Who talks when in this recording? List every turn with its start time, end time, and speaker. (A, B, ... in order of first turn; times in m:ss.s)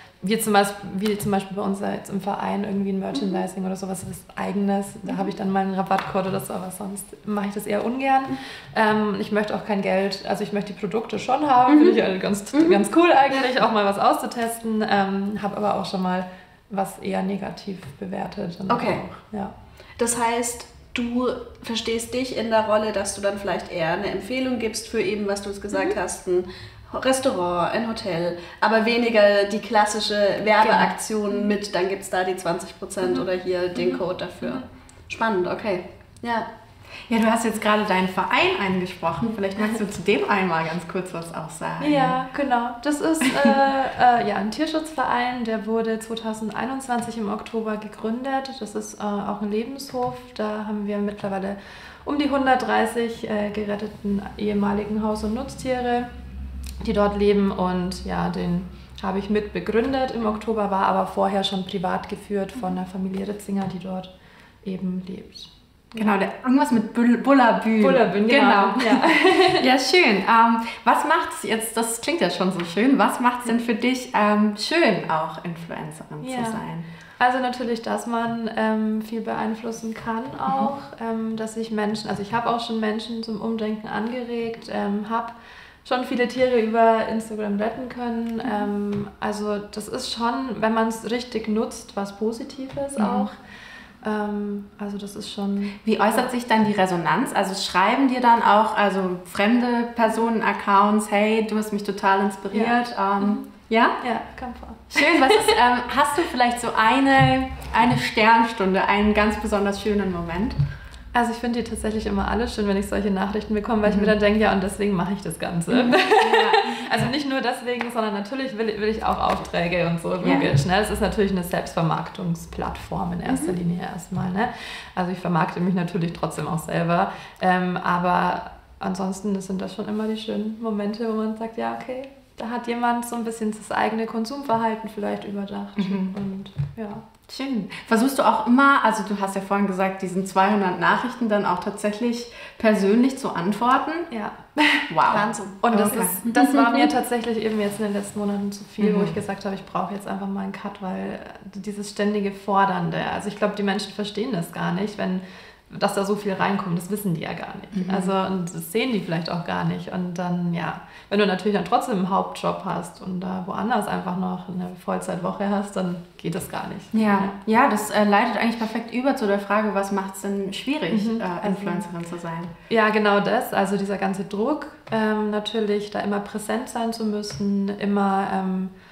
0:00.2-0:19.5 A
0:03.1-0:03.4 B
0:11.7-0:12.0 B
0:12.5-0:13.5 B
0:18.7-0:19.0 B
0:20.0-0:36.4 B
0:30.6-0:30.9 C
0:33.8-0:34.6 A
0:37.1-0:42.2 C
0:41.8-0:56.1 A
0:43.2-0:43.6 C
0:56.8-1:04.1 A
1:04.6-1:06.1 A
1:06.0-1:16.8 C
1:07.8-1:09.7 A
1:16.2-1:16.6 A
1:17.2-1:33.4 A
1:33.0-1:33.3 C
1:34.0-1:36.3 A
1:35.8-1:44.0 C
1:42.5-1:43.4 A
1:44.0-1:45.5 A
1:44.9-1:50.6 C
1:51.1-2:17.0 A
1:53.8-1:54.1 C
1:56.2-1:57.1 C
2:00.2-2:00.5 C
2:03.2-2:03.6 B
2:15.8-2:16.1 C
2:17.3-2:24.1 C
2:24.1-2:47.4 A
2:24.9-2:26.2 C
2:25.1-2:25.6 B
2:26.2-2:26.9 B
2:28.8-2:29.2 C
2:37.7-2:38.1 C
2:46.9-2:52.5 C
2:50.9-2:51.8 A
2:52.7-2:58.7 A